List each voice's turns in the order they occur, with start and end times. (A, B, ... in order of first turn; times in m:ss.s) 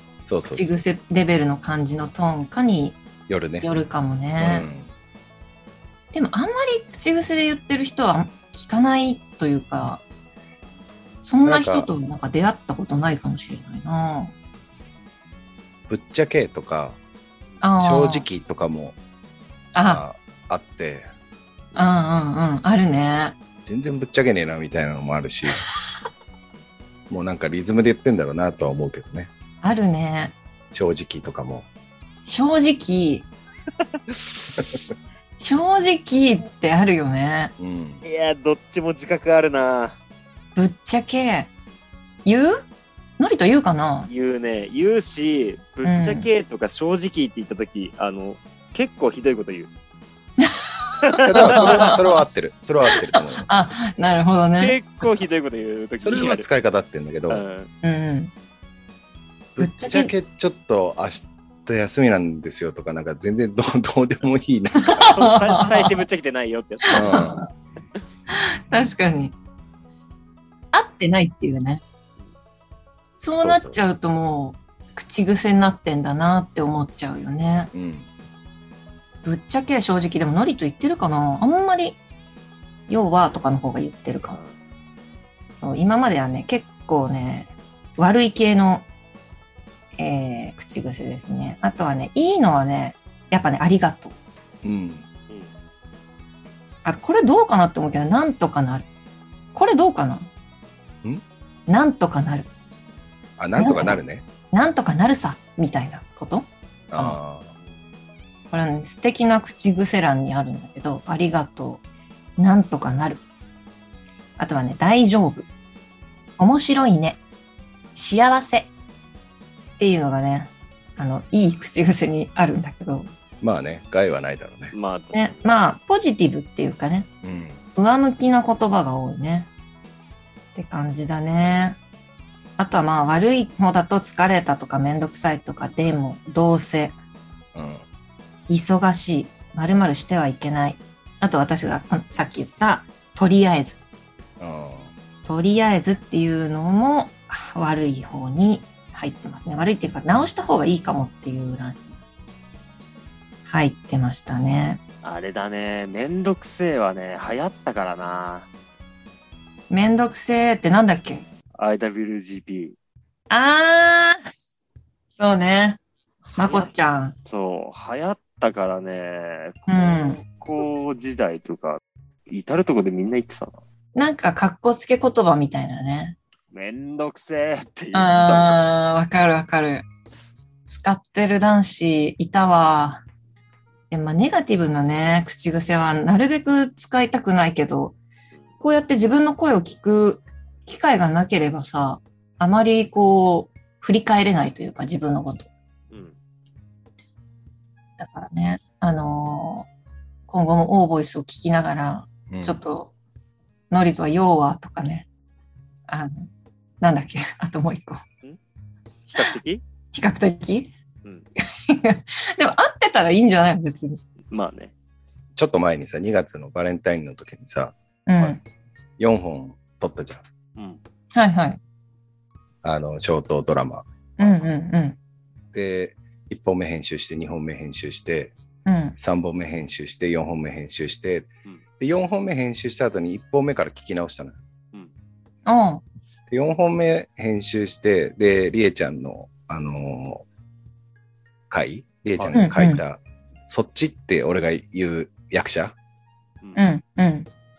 0:00.2-0:00.7 A
0:00.5-0:03.0 B
0:03.3-0:03.7 A
0:03.6-0:04.7 B
0:04.4-0:04.9 A
0:06.1-0:10.0 B
0:11.2-0:14.3 B
0:11.4-0:11.9 A
0:15.9-0:17.0 A
0:17.6-0:18.2 B
0:17.8-0:19.0 A
0:19.7-0:20.0 B
0:19.8-0:21.1 A
0:21.7-0:23.3 B
0:23.6-0:25.6 A
0:27.1-0:29.3 A
0:29.6-0:30.4 B
0:30.7-0:31.7 A
0:32.2-0:33.3 B
0:35.4-0:37.5 B
0:37.6-0:38.0 A
0:38.0-0:40.0 C
0:40.6-0:41.5 B
0:42.2-0:42.6 B
0:43.2-0:44.1 B
0:44.1-0:49.7 C
0:45.8-0:46.3 B
0:50.4-0:52.2 B
0:51.1-0:52.0 C
0:51.2-0:53.5 A
0:53.2-0:54.8 B
0:54.6-0:56.4 C
0:56.0-0:57.4 A
0:57.3-0:57.7 C
0:57.8-0:58.3 B
0:59.6-1:05.1 A
0:59.6-1:00.1 B
1:04.8-1:06.0 B
1:05.0-1:07.4 C
1:06.9-1:07.5 B
1:06.9-1:07.4 A
1:08.3-1:09.3 B
1:10.7-1:11.8 B
1:13.2-1:17.7 B
1:13.4-1:13.8 A
1:17.7-1:18.1 A
1:19.2-1:22.0 B
1:22.9-1:24.4 B
1:24.3-1:24.6 C
1:25.5-1:28.9 B
1:30.0-1:34.1 B
1:34.6-1:35.0 A
1:36.8-1:38.9 B
1:39.5-1:40.3 B
1:41.7-1:42.5 B
1:43.4-1:44.2 A
1:43.6-1:44.0 B
1:44.5-1:47.2 B
1:46.9-1:47.5 A
1:48.5-1:51.8 B
1:52.4-1:53.2 B
1:54.4-1:55.5 B
1:56.4-1:57.2 B
1:57.9-1:58.7 B
1:59.8-2:03.1 B
2:03.4-2:04.7 A
2:04.7-2:05.5 C
2:05.1-2:07.1 B
2:07.2-2:07.6 A
2:07.7-2:09.5 B
2:10.5-2:11.8 B
2:12.6-2:17.0 B
2:17.5-2:17.8 A
2:18.5-2:23.8 B
2:24.4-2:24.9 A
2:25.2-2:31.9 B
2:33.4-2:34.8 B
2:35.0-2:38.5 C
2:39.7-2:41.3 B
2:41.6-2:42.8 C
2:43.3-2:44.2 B
2:45.2-2:45.8 B
2:46.3-2:46.7 C
2:46.4-2:47.1 B
2:47.3-2:53.5 C
2:49.7-2:50.2 B
2:53.9-2:56.2 B
2:56.5-2:58.6 C
2:57.9-2:59.8 B
3:00.7-3:03.0 B
3:03.9-3:08.0 B
3:08.6-3:15.5 B
3:18.0-3:19.7 B
3:20.3-3:22.9 B
3:22.3-3:22.6 A
3:23.7-3:25.1 B
3:25.9-3:26.3 B
3:26.8-3:28.0 B
3:29.1-3:29.6 C
3:29.9-3:30.7 B
3:31.4-3:34.0 B
3:34.3-3:34.7 C
3:35.4-3:38.4 A
3:38.0-3:38.4 B
3:39.0-3:40.2 A
3:41.1-3:41.6 B
3:42.6-3:43.8 A
3:44.2-3:45.0 B
3:44.2-3:44.5 C
3:45.5-3:48.3 A
3:48.6-3:49.0 B
3:49.0-3:54.4 A
3:55.4-3:55.8 B
3:56.3-4:00.2 A
4:01.5-4:05.7 A
4:02.3-4:02.8 B
4:06.5-4:07.3 B